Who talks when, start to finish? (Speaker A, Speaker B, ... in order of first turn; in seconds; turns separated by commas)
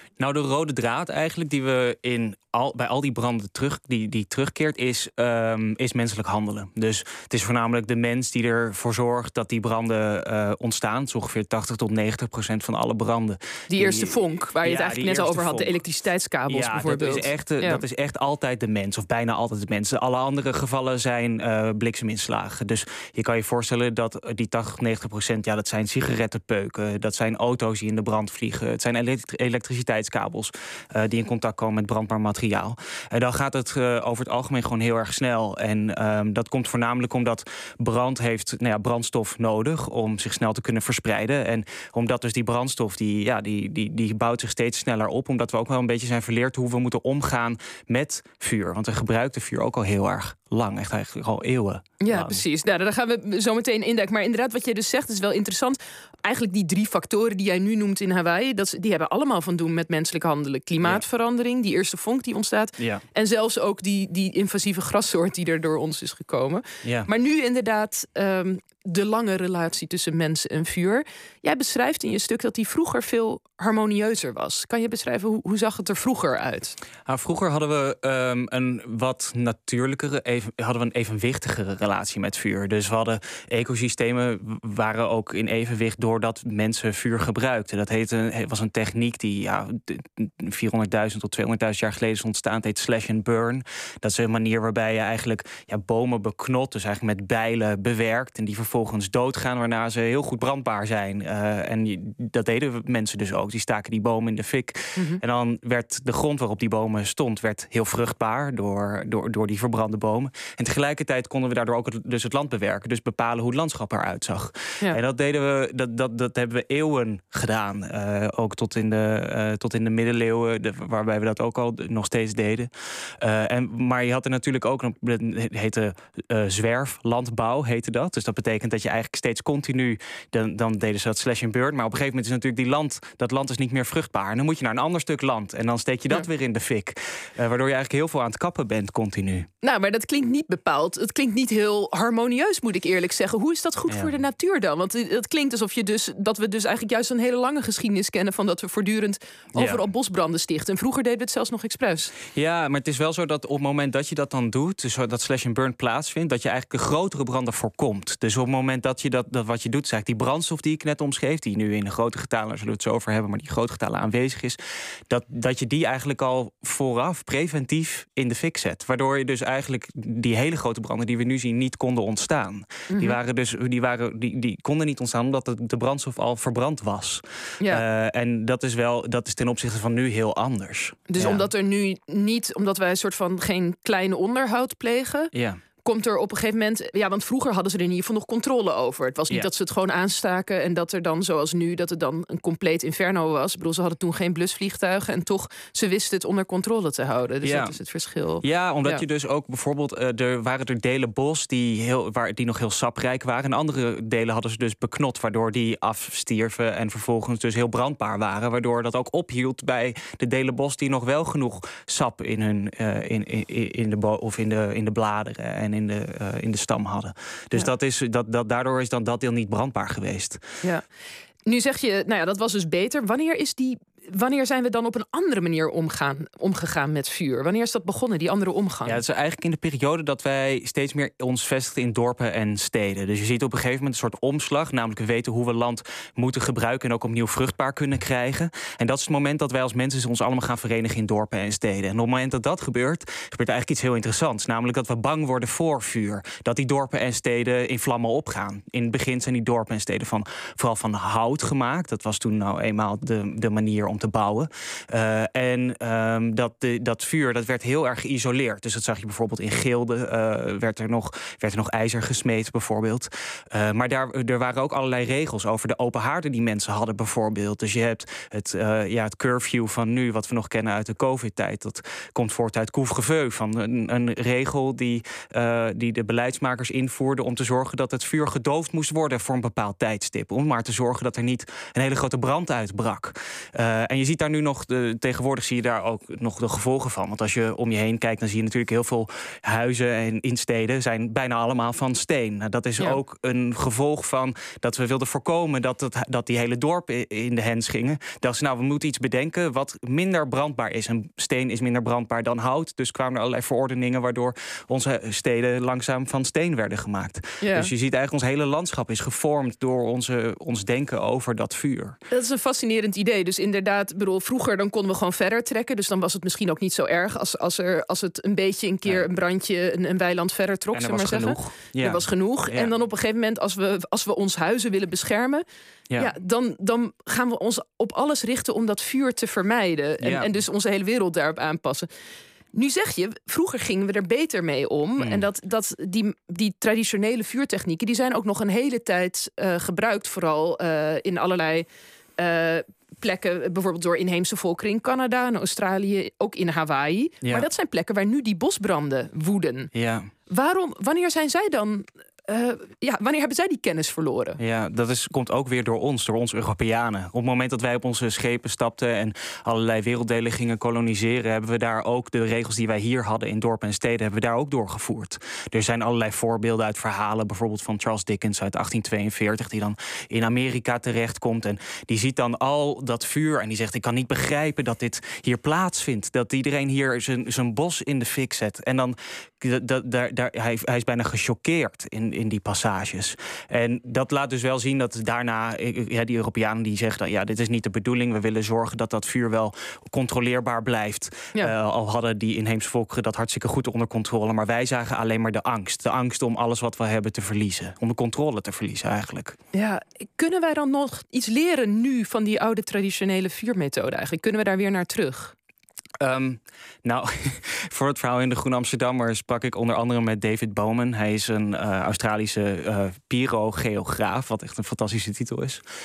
Speaker A: 0.2-15.8, Speaker B: 13.7-17.8, Speaker A: 16.5-52.4, Speaker B: 52.0-76.8, Speaker A: 62.8-63.0, Speaker A: 66.8-67.1, Speaker A: 77.1-139.5, Speaker B: 105.0-105.2, Speaker B: 139.6-152.1, Speaker A: 149.6-149.8, Speaker A: 152.3-164.6, Speaker A: 165.1-181.5, Speaker B: 172.9-173.2, Speaker B: 181.1-185.3, Speaker A: 185.3-185.6, Speaker B: 185.8-199.0, Speaker A: 197.4-197.8, Speaker A: 198.4-220.4, Speaker B: 221.5-229.0, Speaker A: 228.9-312.0, Speaker B: 307.4-307.7, Speaker B: 312.1-325.4, Speaker A: 320.7-322.7, Speaker B: 326.0-331.9, Speaker A: 330.0-330.3, Speaker B: 332.5-341.7, Speaker A: 335.0-335.3, Speaker B: 342.2-349.7, Speaker A: 349.7-350.1, Speaker B: 350.3-354.4, Speaker A: 354.4-399.4, Speaker B: 399.5-405.3, Speaker A: 406.0-415.6